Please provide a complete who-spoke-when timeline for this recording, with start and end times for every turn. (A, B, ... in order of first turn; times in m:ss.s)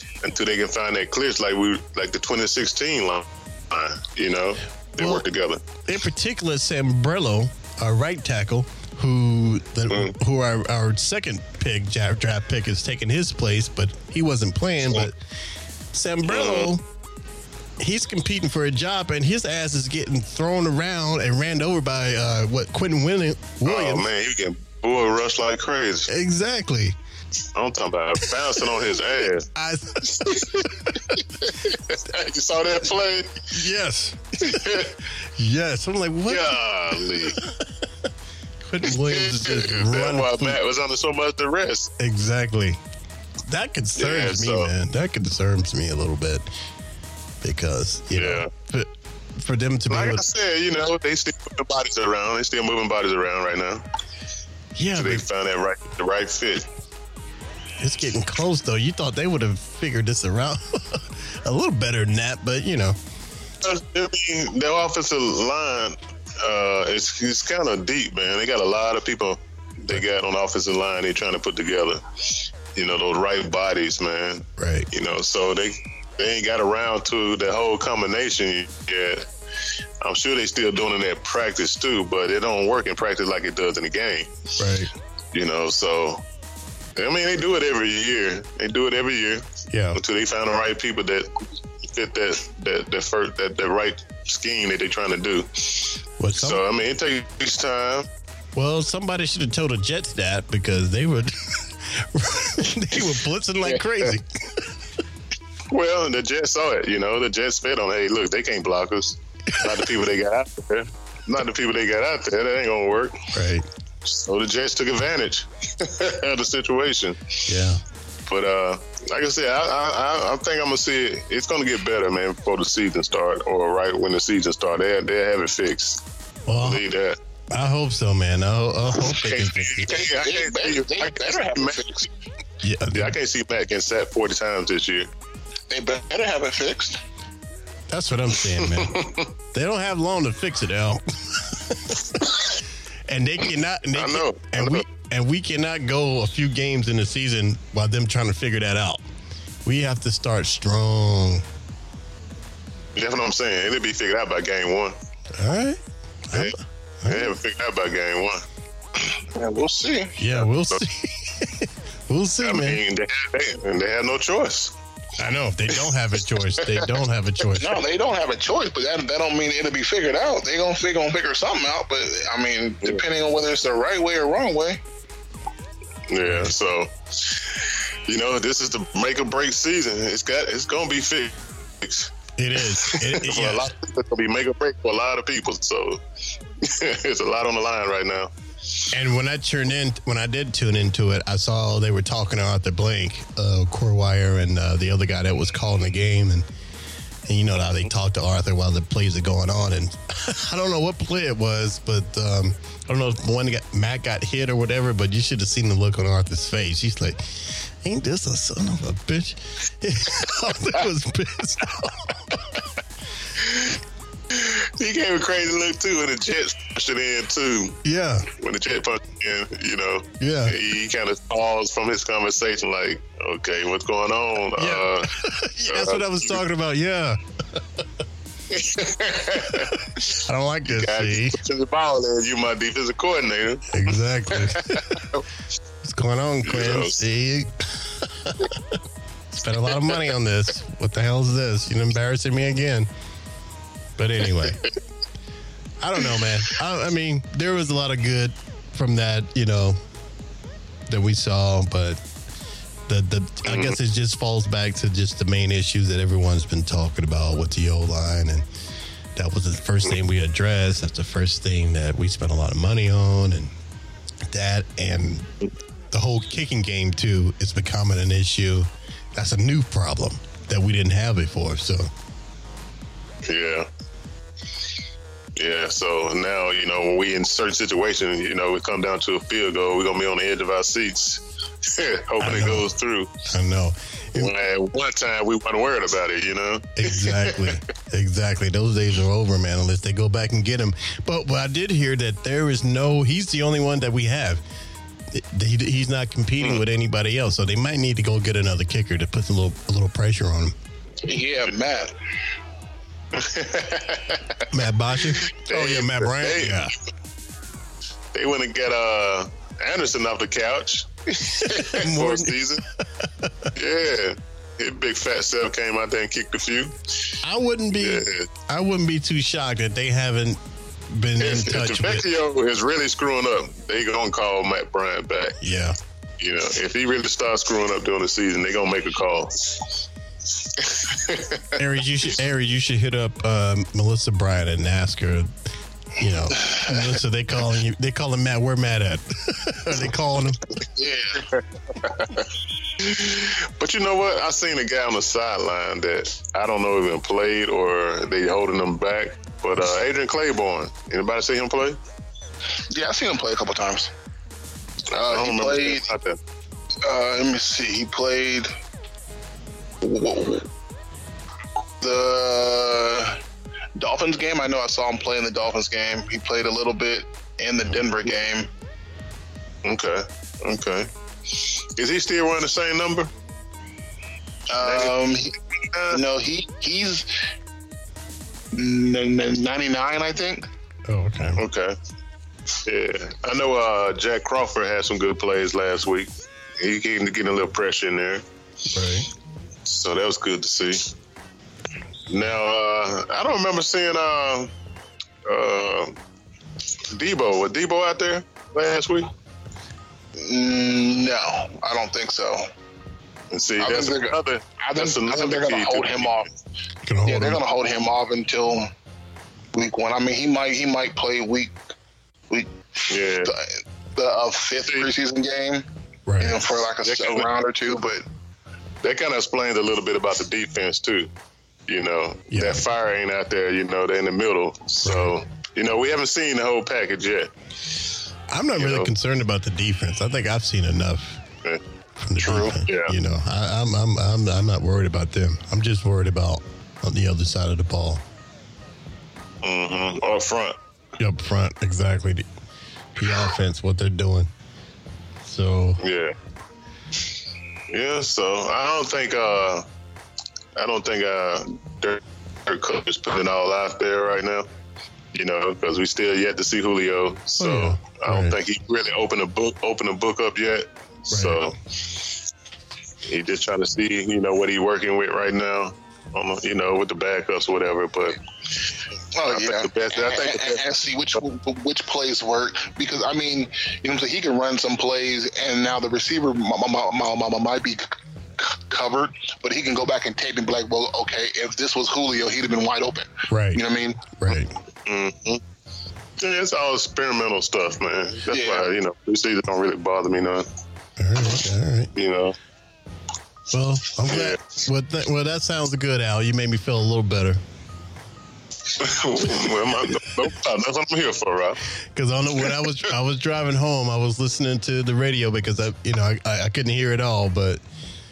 0:00.2-0:05.6 A
0:05.0-0:05.2 B
0:05.8-0:15.2 B
0:09.9-0:10.1 A
0:15.9-0:16.8 B
0:16.2-0:16.7 A
0:17.8-0:24.1 B
0:23.6-0:26.1 A
0:26.1-0:27.0 B
0:27.5-0:29.4 A
0:29.5-0:31.1 B
0:30.2-0:30.7 A
0:31.4-0:33.5 A
0:33.5-0:37.8 B
0:34.4-0:34.9 A
0:36.3-0:37.4 A
0:38.6-0:40.6 B
0:38.9-0:41.9 A
0:42.0-0:42.8 B
0:43.5-0:46.4 B
0:44.0-0:44.7 A
0:47.4-0:50.2 B
0:48.1-0:48.5 A
0:49.9-0:53.8 A
0:54.8-0:55.2 B
0:55.0-0:56.7 A
0:57.8-1:03.0 B
1:03.6-1:19.3 A
1:14.6-1:14.9 B
1:20.0-1:24.3 A
1:24.6-1:24.9 B
1:25.3-1:26.2 A
1:27.0-1:31.3 A
1:29.7-1:30.0 B
1:31.8-1:38.1 A
1:36.2-1:36.6 B
1:38.5-1:44.7 B
1:45.7-1:53.3 A
1:49.5-1:49.9 B
1:53.3-1:53.7 B
1:54.0-1:57.4 A
1:57.4-1:57.8 B
1:58.3-2:06.0 A
2:06.5-2:06.8 B
2:06.6-2:07.2 A
2:07.5-2:10.0 B
2:09.0-2:11.8 A
2:09.8-2:12.1 C
2:12.6-2:13.2 B
2:12.9-2:15.1 A
2:15.7-2:17.0 C
2:17.9-2:22.2 B
2:18.7-2:19.2 A
2:23.1-2:29.0 B
2:23.9-2:24.8 A
2:29.6-2:31.4 B
2:33.0-2:35.0 A
2:35.3-2:37.4 B
2:36.3-2:38.4 A
2:39.3-2:40.3 C
2:40.2-2:42.8 B
2:40.4-2:40.8 A
2:42.4-2:44.7 A
2:45.2-2:47.8 B
2:47.6-2:54.8 C
2:56.1-3:02.1 A
2:56.2-2:56.5 B
3:02.4-3:03.7 B
3:02.7-3:06.0 A
3:06.6-3:08.8 A
3:08.9-3:16.5 B
3:17.3-3:32.4 B
3:33.4-3:33.7 A
3:34.3-3:37.8 A
3:37.8-3:38.3 B
3:38.4-3:45.2 A
3:40.2-3:40.6 B
3:44.5-3:47.6 B
3:45.7-3:46.4 A
3:48.5-3:50.0 A
3:50.1-3:51.4 B
3:50.6-3:55.2 A
3:53.7-3:55.0 B
3:55.8-3:58.7 B
3:56.4-3:57.0 A
3:59.3-4:02.9 B
3:59.7-4:00.1 A
4:04.0-4:04.6 B
4:05.8-4:09.8 B
4:10.9-4:12.0 B
4:12.9-4:18.4 B
4:13.5-4:13.8 A
4:19.2-4:23.5 B
4:24.2-4:25.3 B
4:25.9-4:31.9 B
4:33.2-4:33.7 A
4:35.4-4:43.1 A
4:42.2-4:42.7 B
4:43.2-4:44.3 B
4:44.2-4:47.6 A
4:46.8-4:54.4 B
4:55.1-5:00.5 B
5:01.0-5:01.9 C
5:03.1-5:04.4 A
5:04.5-5:06.7 B
5:05.3-5:06.7 A
5:08.1-5:12.6 A
5:11.6-5:12.4 B
5:13.0-5:13.5 B
5:13.6-5:17.2 A
5:17.2-5:22.0 B
5:17.8-5:18.3 A
5:21.2-5:25.4 A
5:25.4-5:25.8 B
5:26.2-5:29.8 A
5:30.6-5:31.5 A
5:31.6-5:35.3 B
5:36.0-5:40.4 B
5:40.8-5:41.2 C
5:42.8-5:51.8 A
5:52.7-5:53.9 C
5:54.9-5:55.9 C
5:54.9-5:56.2 A
5:56.8-5:58.5 C
5:59.8-6:00.5 C
6:01.8-6:03.2 C
6:03.8-6:08.5 C
6:09.6-6:13.1 A
6:14.5-6:15.3 C
6:14.6-6:15.0 A
6:15.7-6:16.0 A
6:15.9-6:17.1 C
6:18.5-6:20.4 C
6:20.9-6:21.4 B
6:21.4-6:21.8 A
6:22.6-6:28.2 A
6:28.7-6:29.1 B
6:29.6-6:30.9 A
6:32.1-6:34.5 A
6:35.2-6:35.9 A
6:36.9-6:39.1 A
6:40.2-6:42.5 C
6:43.3-6:46.2 A
6:43.6-6:46.3 C
6:46.8-6:47.4 B
6:47.0-6:48.7 C
6:49.5-6:51.6 C
6:52.3-6:55.6 C
6:52.9-6:53.3 A
6:56.0-6:56.4 B
6:56.2-6:58.0 C
6:56.8-6:57.3 A
6:58.8-7:01.1 A
7:01.7-7:07.3 A
7:02.3-7:02.6 B
7:04.8-7:05.1 B
7:08.3-7:11.2 B
7:08.6-7:08.9 A
7:12.0-7:18.0 B
7:12.2-7:12.6 C
7:12.7-7:12.9 A
7:19.4-7:20.6 A
7:21.0-7:22.2 B
7:23.0-7:24.3 B
7:25.2-7:25.8 B
7:25.8-7:26.1 A
7:27.7-7:29.6 A
7:30.6-7:34.5 A
7:35.1-7:42.1 A
7:37.4-7:38.4 B
7:41.1-7:41.5 B
7:43.0-7:48.6 A
7:49.1-8:04.0 C
7:49.3-7:50.6 A
8:03.3-8:03.6 B
8:04.2-8:04.5 B
8:04.8-8:05.4 A
8:06.2-8:10.4 A
8:08.3-8:08.7 C
8:11.0-8:11.9 B
8:11.9-8:12.4 A
8:13.5-8:17.4 B
8:14.0-8:14.4 A
8:18.7-8:21.6 A
8:21.9-8:27.6 B